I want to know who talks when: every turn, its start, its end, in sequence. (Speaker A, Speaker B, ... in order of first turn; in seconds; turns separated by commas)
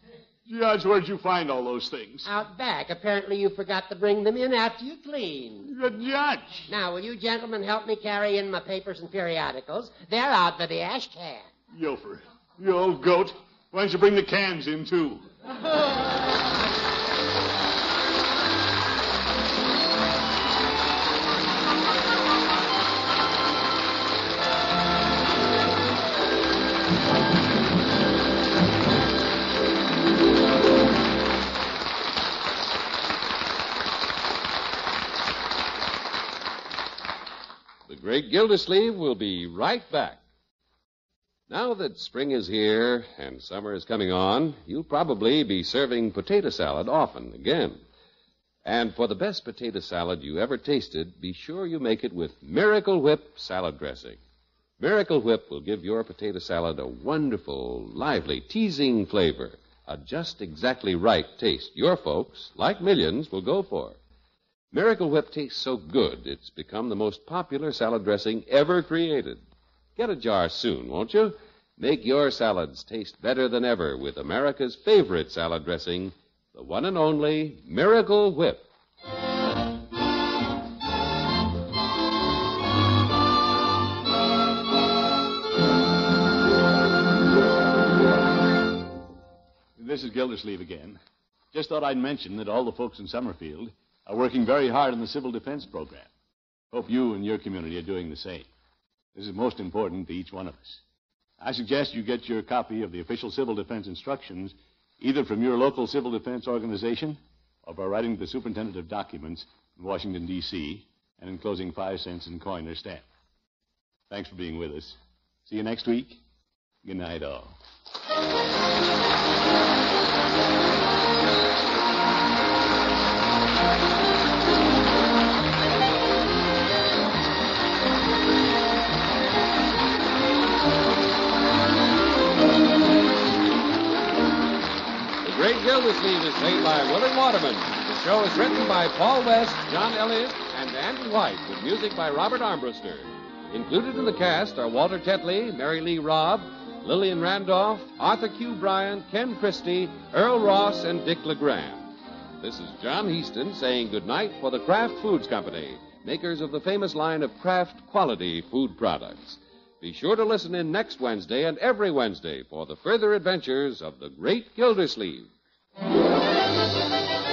Speaker A: 0.5-2.3, Speaker B: 2.2-5.7, Speaker A: 5.7-6.7, Speaker B: 6.7-11.5, Speaker A: 11.7-15.2, Speaker C: 37.9-40.2, Speaker C: 41.5-47.8, Speaker C: 48.6-54.2, Speaker C: 54.8-64.0, Speaker C: 64.7-69.4, Speaker C: 70.0-78.7, Speaker A: 89.8-91.0, Speaker A: 91.5-96.1, Speaker A: 96.7-98.5, Speaker A: 99.1-100.8, Speaker A: 101.4-113.0, Speaker A: 114.1-116.2, Speaker A: 116.8-117.5, Speaker C: 135.2-151.9, Speaker C: 152.4-165.3